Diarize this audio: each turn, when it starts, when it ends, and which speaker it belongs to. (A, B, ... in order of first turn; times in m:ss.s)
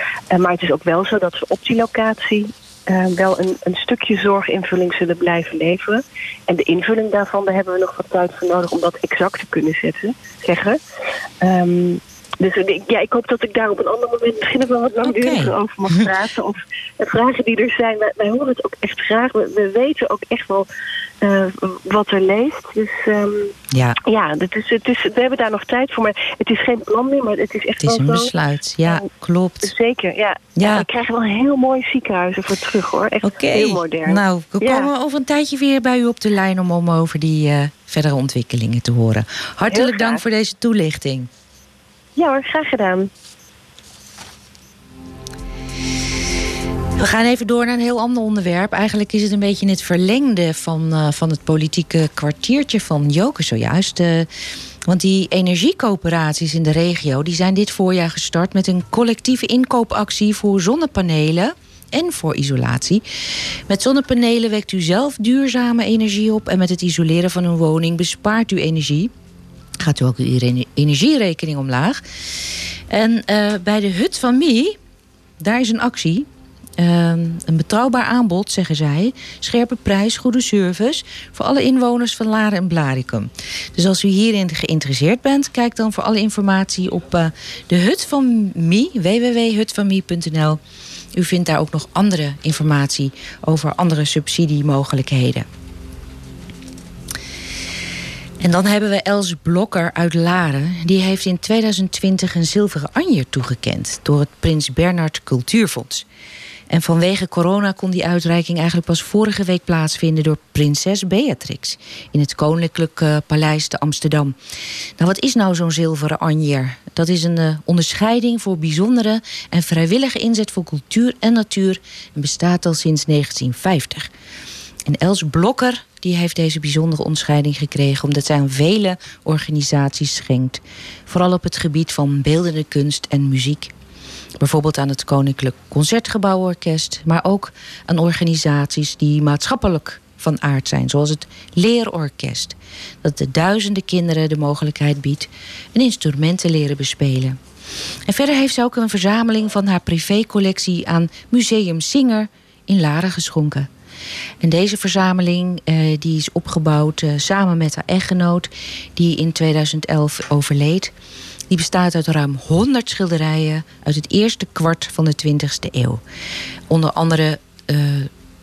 0:00.3-0:10.8 A
0:11.4-0:20.7 A
0:15.0-0:16.1 B
0:21.2-0:23.5 A
0:24.0-0:28.3 A
0:27.8-0:29.7 B
0:29.6-0:34.9 A
0:30.6-0:30.9 B
0:33.2-0:41.3 B
0:39.7-0:40.2 A
0:42.2-0:43.1 A
0:47.0-0:54.3 B
0:54.9-1:03.0 B
1:03.7-1:09.1 B
1:09.8-1:12.0 B
1:12.9-1:14.8 B
1:15.4-1:30.6 B
1:31.1-1:35.5 B
1:38.4-1:46.0 B
1:46.7-1:54.4 B
1:55.0-2:04.1 B
2:04.8-2:13.7 B
2:14.4-2:27.4 B
2:28.1-2:33.7 B
2:34.4-2:40.9 B
2:41.5-2:46.0 B
2:46.7-2:48.1 B